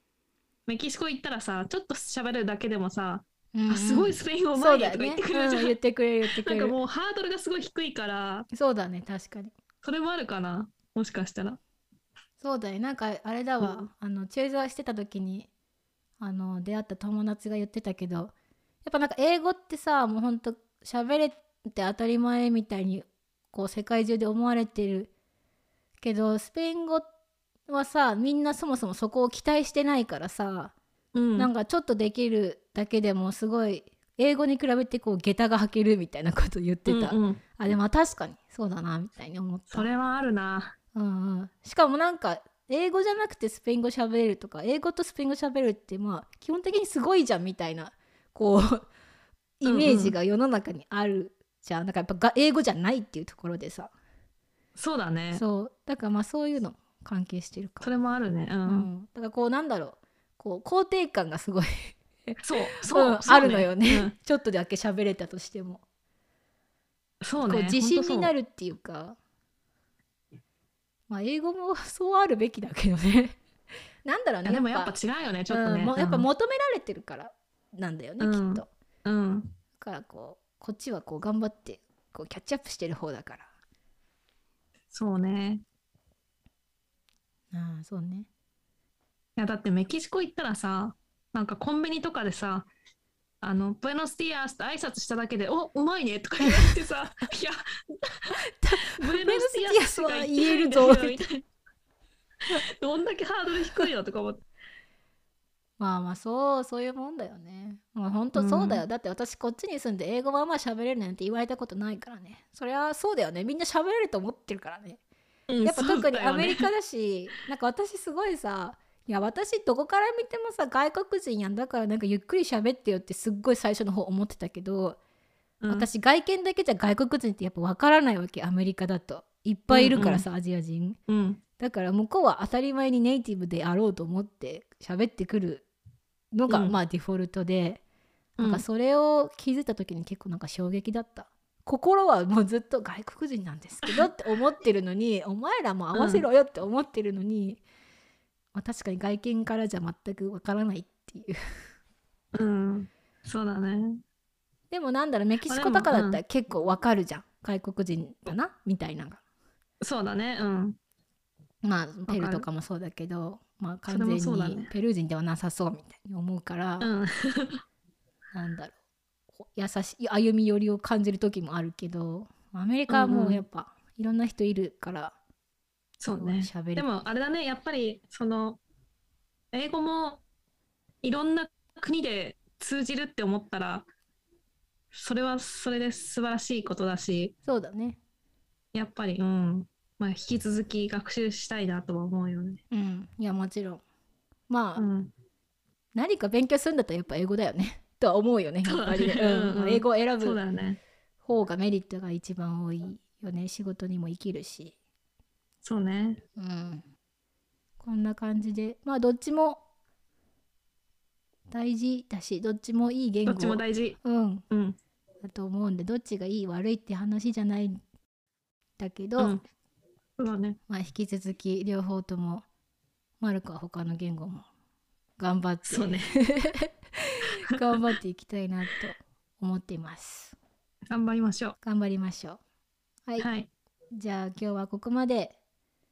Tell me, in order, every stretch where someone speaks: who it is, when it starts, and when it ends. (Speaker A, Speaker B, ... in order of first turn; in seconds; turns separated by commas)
Speaker A: 0.7-5.7, Speaker B: 3.5-6.8, Speaker A: 6.3-8.5, Speaker B: 8.5-9.5, Speaker A: 9.8-11.6, Speaker B: 12.4-15.5, Speaker A: 13.6-13.9, Speaker B: 16.2-18.3, Speaker B: 18.9-25.1, Speaker B: 26.0-27.1, Speaker B: 27.7-30.7, Speaker A: 31.1-31.5, Speaker B: 31.4-39.9, Speaker A: 36.9-37.4, Speaker A: 39.7-40.8, Speaker B: 40.9-48.9, Speaker B: 49.6-53.9, Speaker A: 49.6-50.2, Speaker A: 54.8-55.4, Speaker B: 55.3-57.9, Speaker A: 57.8-58.9, Speaker B: 58.7-65.8, Speaker A: 62.4-64.1, Speaker A: 67.2-68.3, Speaker B: 67.4-69.2, Speaker B: 71.1-73.4, Speaker B: 74.0-75.0, Speaker A: 74.5-76.3, Speaker B: 75.5-78.7, Speaker A: 78.2-79.5, Speaker B: 79.8-83.5, Speaker A: 84.9-85.6, Speaker B: 87.5-88.3, Speaker A: 89.4-92.7, Speaker A: 93.4-101.5, Speaker B: 96.4-96.7, Speaker B: 98.6-101.2, Speaker A: 102.8-104.4, Speaker B: 105.8-115.0, Speaker A: 108.3-108.8, Speaker A: 115.5-116.7, Speaker B: 115.6-125.0, Speaker A: 125.6-125.9, Speaker B: 125.7-131.0, Speaker A: 129.7-130.3, Speaker A: 131.1-131.4, Speaker B: 131.6-135.7, Speaker B: 136.3-137.8, Speaker A: 136.5-136.7, Speaker A: 138.4-138.6, Speaker B: 138.4-147.6, Speaker A: 145.9-146.3, Speaker B: 148.6-151.4, Speaker A: 152.3-154.0, Speaker B: 154.7-159.2, Speaker A: 155.5-156.2, Speaker A: 159.8-160.8, Speaker B: 161.6-166.9, Speaker A: 162.1-162.5, Speaker A: 163.9-164.7, Speaker A: 166.8-167.6, Speaker B: 168.3-168.8, Speaker B: 169.4-175.1, Speaker A: 172.9-173.4, Speaker A: 176.0-178.6, Speaker B: 176.1-176.9, Speaker A: 179.5-180.2, Speaker A: 181.0-183.9, Speaker A: 184.9-187.3, Speaker B: 187.5-188.0, Speaker A: 188.7-192.6, Speaker B: 192.7-193.8, Speaker B: 194.5-194.8, Speaker A: 194.8-195.1, Speaker B: 195.9-200.4, Speaker A: 198.6-200.8, Speaker B: 201.2-204.8, Speaker A: 205.6-206.2, Speaker B: 206.4-206.8, Speaker B: 207.8-209.6, Speaker B: 211.5-214.4, Speaker A: 213.3-214.0, Speaker A: 214.5-214.8, Speaker B: 215.2-217.8, Speaker B: 218.8-219.4, Speaker A: 220.2-220.6, Speaker B: 220.7-222.4, Speaker B: 223.2-224.5, Speaker B: 225.2-230.4, Speaker A: 225.7-226.1, Speaker A: 230.9-231.6, Speaker B: 231.6-232.4, Speaker A: 233.2-233.5, Speaker B: 233.9-235.4